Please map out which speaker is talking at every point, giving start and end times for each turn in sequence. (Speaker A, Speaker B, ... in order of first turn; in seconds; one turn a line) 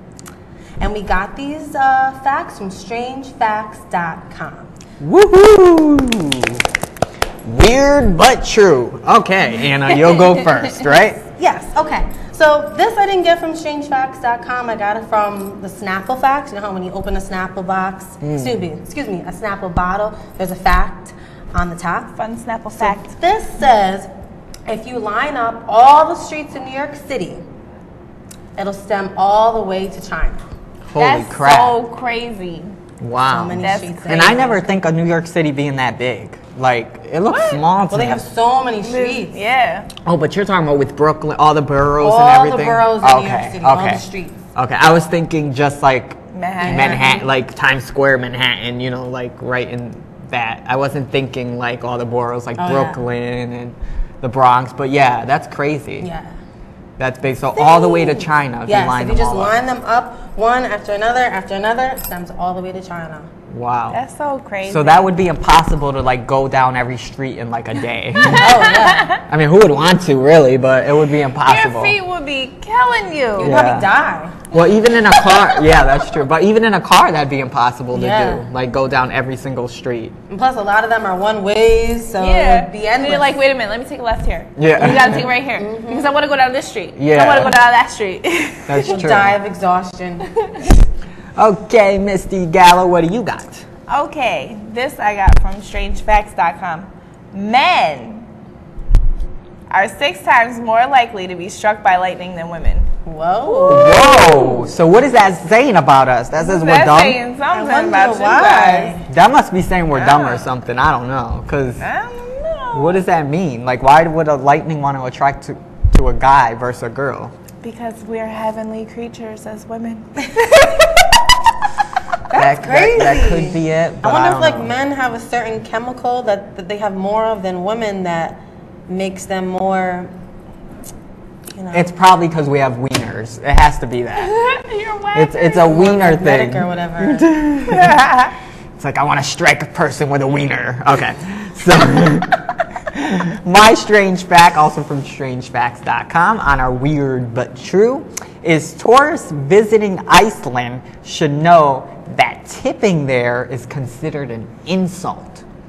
Speaker A: 0.8-4.7
Speaker B: 5.0-6.6
Speaker B: 7.5-11.2
Speaker A: 11.3-22.1
Speaker B: 18.2-18.6
Speaker C: 22.2-23.1
Speaker A: 22.7-24.1
Speaker A: 24.7-27.4
Speaker A: 28.6-30.4
Speaker B: 30.9-31.8
Speaker C: 31.0-32.7
Speaker B: 33.0-38.2
Speaker A: 33.3-34.7
Speaker C: 33.6-34.2
Speaker C: 37.3-37.6
Speaker A: 37.9-39.4
Speaker C: 38.8-39.9
Speaker B: 40.0-56.1
Speaker A: 42.0-44.4
Speaker C: 46.3-47.0
Speaker A: 46.6-47.3
Speaker A: 52.6-53.0
Speaker A: 56.0-56.4
Speaker B: 57.0-59.6
Speaker A: 57.5-63.3
Speaker B: 63.5-64.0
Speaker C: 63.9-65.1
Speaker B: 64.6-72.0
Speaker C: 68.2-69.2
Speaker A: 68.3-69.2
Speaker C: 71.5-73.6
Speaker B: 73.4-73.9
Speaker A: 73.4-74.4
Speaker B: 74.5-80.2
Speaker A: 77.9-78.5
Speaker A: 80.3-83.4
Speaker C: 82.2-89.0
Speaker B: 84.6-85.3
Speaker A: 84.9-86.2
Speaker B: 87.0-87.6
Speaker B: 88.7-89.4
Speaker A: 88.8-90.3
Speaker C: 90.4-90.7
Speaker B: 91.4-93.7
Speaker C: 93.9-98.3
Speaker C: 99.7-102.9
Speaker A: 103.0-104.0
Speaker C: 103.5-104.8
Speaker B: 103.7-107.2
Speaker C: 106.4-109.0
Speaker A: 107.5-109.1
Speaker B: 109.1-111.8
Speaker C: 109.9-110.5
Speaker C: 111.8-113.0
Speaker B: 112.7-117.3
Speaker C: 117.6-121.0
Speaker A: 122.3-130.1
Speaker B: 122.3-124.7
Speaker A: 131.5-131.9
Speaker B: 131.7-134.3
Speaker C: 134.2-135.7
Speaker B: 135.1-138.1
Speaker A: 135.6-137.3
Speaker C: 137.7-138.3
Speaker B: 138.8-155.4